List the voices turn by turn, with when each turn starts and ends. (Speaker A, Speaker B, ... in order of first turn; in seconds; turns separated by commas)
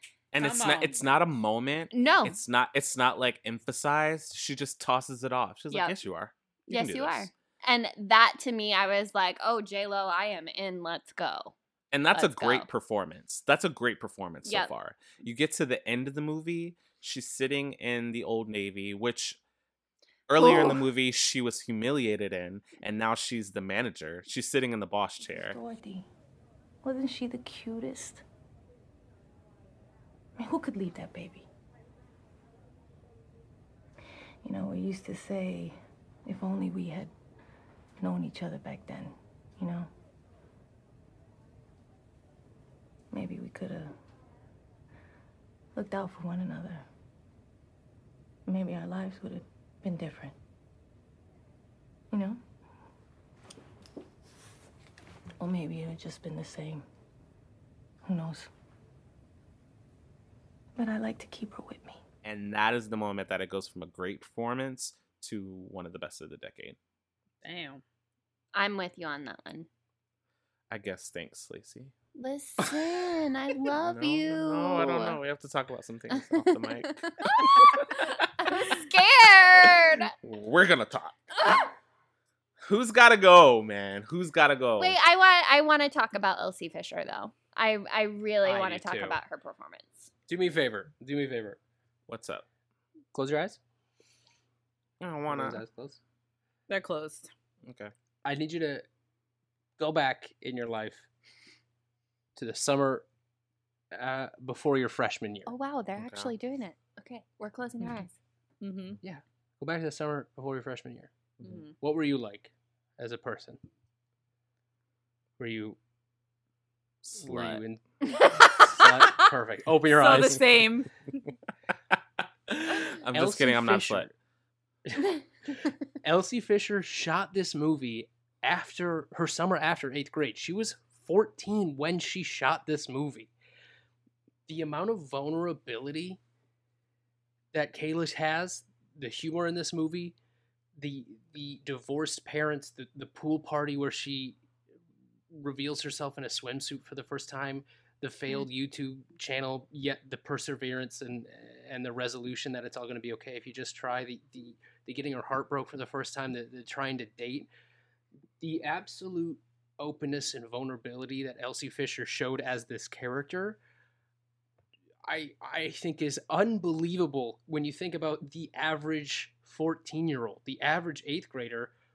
Speaker A: 0.3-7.3, Speaker B: 0.4-1.0, Speaker C: 1.9-2.4, Speaker C: 5.7-6.0, Speaker C: 6.7-11.5, Speaker A: 11.9-19.4, Speaker C: 12.1-12.7, Speaker C: 14.4-14.7, Speaker A: 20.3-25.6, Speaker C: 20.4-20.7, Speaker D: 25.3-26.0, Speaker D: 26.8-28.2, Speaker D: 30.4-31.4, Speaker D: 34.4-35.7, Speaker D: 36.2-37.1, Speaker D: 38.0-39.9, Speaker D: 43.1-43.9, Speaker D: 45.7-46.9, Speaker D: 48.5-50.3, Speaker D: 52.1-52.4, Speaker D: 55.4-56.8, Speaker D: 58.0-58.5, Speaker D: 60.8-62.0, Speaker A: 62.2-66.8, Speaker B: 67.4-67.8, Speaker C: 68.5-69.7, Speaker A: 70.7-71.9, Speaker C: 72.1-75.2, Speaker A: 73.7-78.2, Speaker C: 76.1-80.1, Speaker A: 80.2-81.2, Speaker C: 81.4-81.7, Speaker A: 82.6-85.0, Speaker C: 84.8-90.1, Speaker E: 88.4-89.2, Speaker E: 90.3-91.6, Speaker A: 92.1-92.4, Speaker E: 93.1-93.6, Speaker A: 95.0-95.6, Speaker E: 95.3-96.0, Speaker B: 96.7-97.3, Speaker A: 97.6-97.9, Speaker E: 98.2-98.8, Speaker E: 99.8-101.1, Speaker E: 102.3-103.0, Speaker E: 103.9-105.5, Speaker C: 105.5-108.1, Speaker A: 106.0-106.3, Speaker B: 108.6-109.0, Speaker E: 109.0-111.1, Speaker B: 111.4-111.7, Speaker E: 111.8-113.6, Speaker E: 115.4-115.8, Speaker E: 117.0-120.4, Speaker A: 117.1-117.6, Speaker C: 118.1-118.7, Speaker B: 119.9-120.9, Speaker A: 122.5-124.1, Speaker E: 123.1-124.1, Speaker E: 124.9-125.2, Speaker E: 126.0-133.3, Speaker E: 134.5-136.2, Speaker E: 137.5-140.1, Speaker E: 140.8-144.4, Speaker E: 145.3-157.5, Speaker E: 158.4-163.6, Speaker E: 165.0-171.7